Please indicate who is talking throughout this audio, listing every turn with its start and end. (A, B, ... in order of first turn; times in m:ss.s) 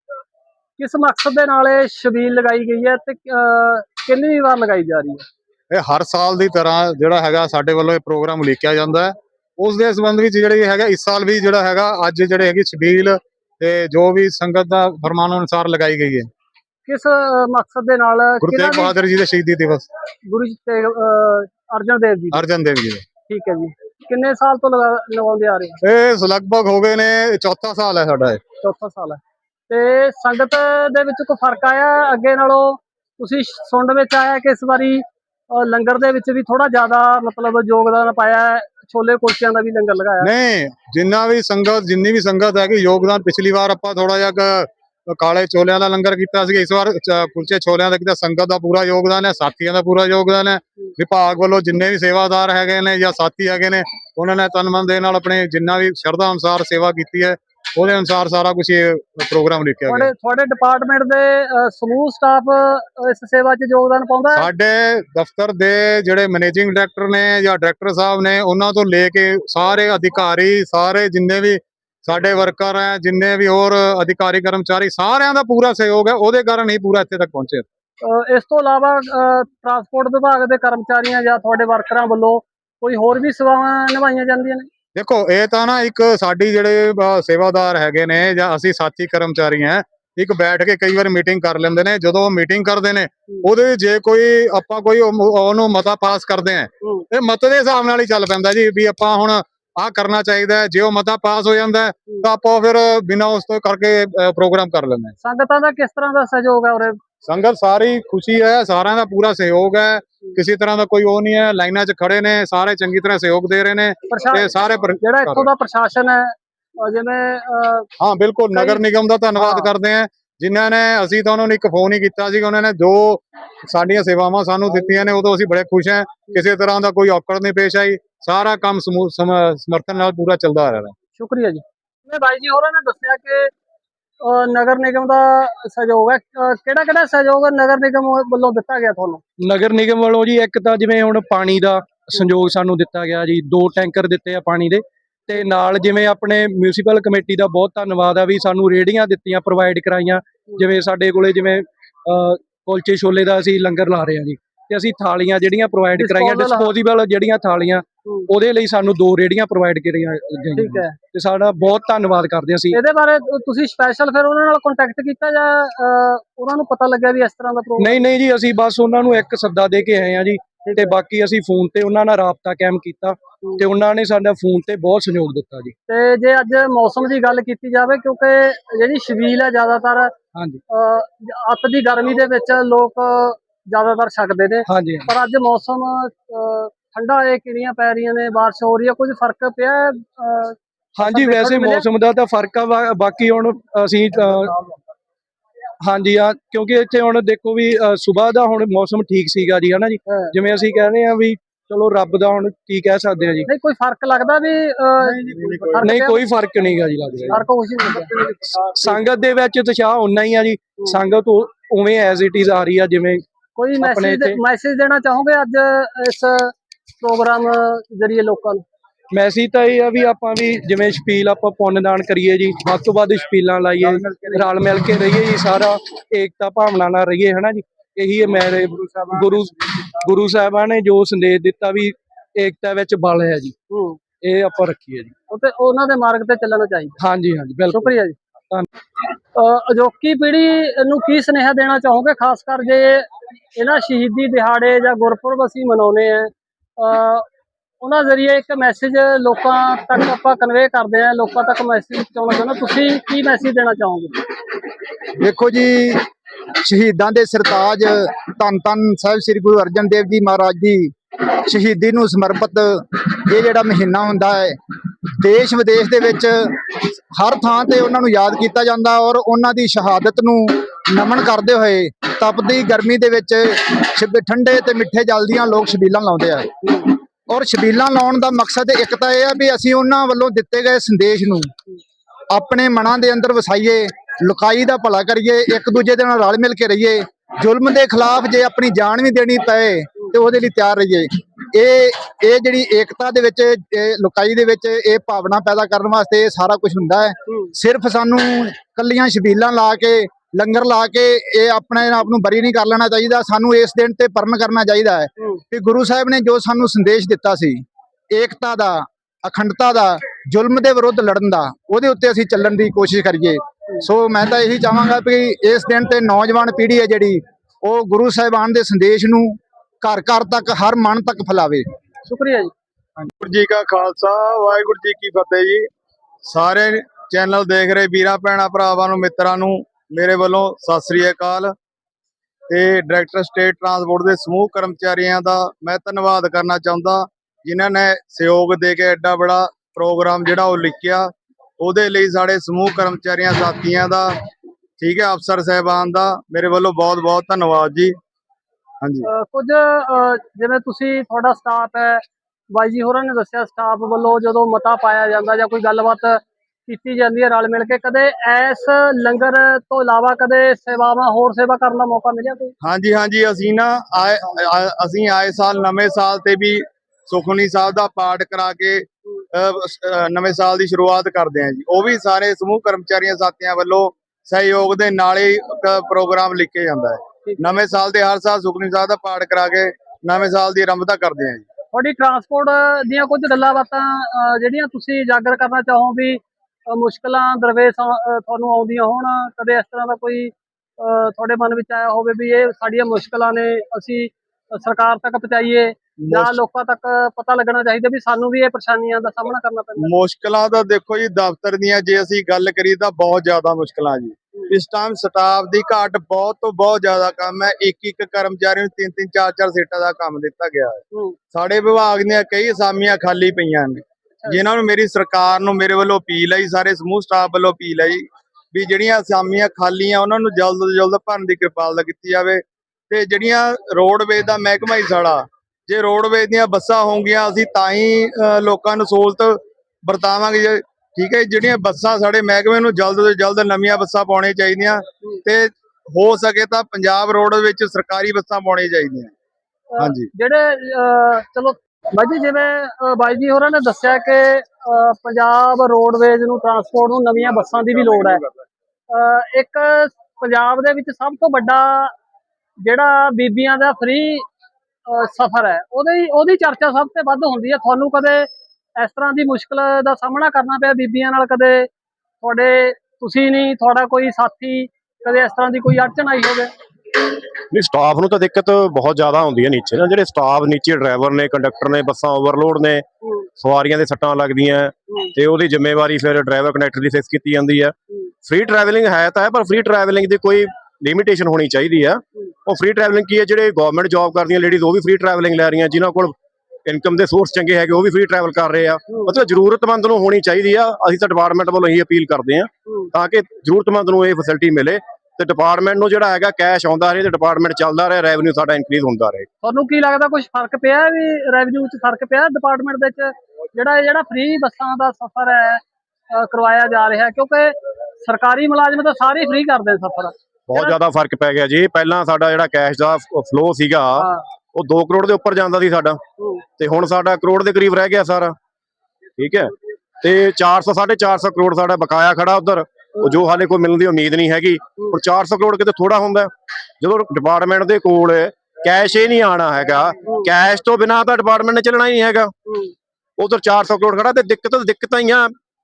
0:00.8-0:05.2 A
0:05.7-0:16.3 B
0:16.9-0:18.9 A
0:18.4-0:19.8 B
0:20.3-0:22.4 A
0:22.3-0:23.0 B
0:23.3-0:25.8 A
0:25.8-0:28.4 B
0:28.6-0:40.3 A
0:40.2-1:00.1 B
0:59.9-1:04.5 A
1:04.3-1:17.6 B
1:18.0-1:24.7 A
1:25.0-1:45.1 B
1:45.2-1:47.0 A
1:47.2-1:55.5 B
1:54.1-1:57.9 A
1:58.0-2:10.9 B
1:58.5-1:58.8 A
1:59.4-1:59.7 A
2:11.2-2:13.5 A
2:14.2-2:19.2 A
2:19.4-2:42.8 C
2:36.0-2:36.7 A
2:40.6-2:41.0 A
2:42.7-2:48.0 A
2:47.8-2:55.7 C
2:50.7-2:50.9 A
2:55.9-3:00.1 A
3:00.3-3:00.6 C
3:00.7-3:11.8 A
3:04.7-3:05.1 C
3:11.0-3:14.5 C
3:15.8-3:23.5 C
3:23.5-3:26.2 A
3:25.1-3:25.9 D
3:25.8-3:27.4 C
3:27.3-3:28.3 A
3:28.7-3:33.2 C
3:33.6-3:38.6 A
3:33.8-3:34.4 C
3:39.1-3:53.5 C
3:53.7-3:54.0 A
3:54.2-3:55.1 C
3:55.3-3:57.0 A
3:57.0-3:58.0 C
3:57.7-3:58.2 A
3:59.3-4:07.3 A
4:07.8-4:14.2 A
4:15.2-4:16.0 E
4:16.6-4:24.6 E
4:25.1-4:36.5 E
4:37.3-4:41.5 E
4:42.3-5:21.6 E
5:22.0-5:22.5 A
5:23.0-5:25.7 D
5:26.2-5:31.5 D
5:32.5-5:44.1 D
5:44.8-5:47.9 D
5:48.8-5:49.1 D
5:49.0-6:02.6 A
6:02.6-6:21.4 D
6:21.7-6:39.9 A
6:36.1-6:36.3 D
6:39.8-7:19.1 D
6:50.9-6:51.2 A
7:19.7-7:28.2 A
7:19.8-7:20.1 D
7:28.9-7:31.9 A
7:32.6-7:34.2 A
7:34.9-7:41.7 A
7:42.2-7:46.5 A
7:47.5-7:52.8 F
7:53.4-7:57.7 F
7:58.2-8:06.1 F
8:06.6-8:19.3 F
8:19.4-8:30.8 A
8:30.5-8:36.0 F
8:36.6-8:38.4 F
8:39.2-8:52.3 F
8:52.5-8:52.7 A
8:53.2-8:55.3 F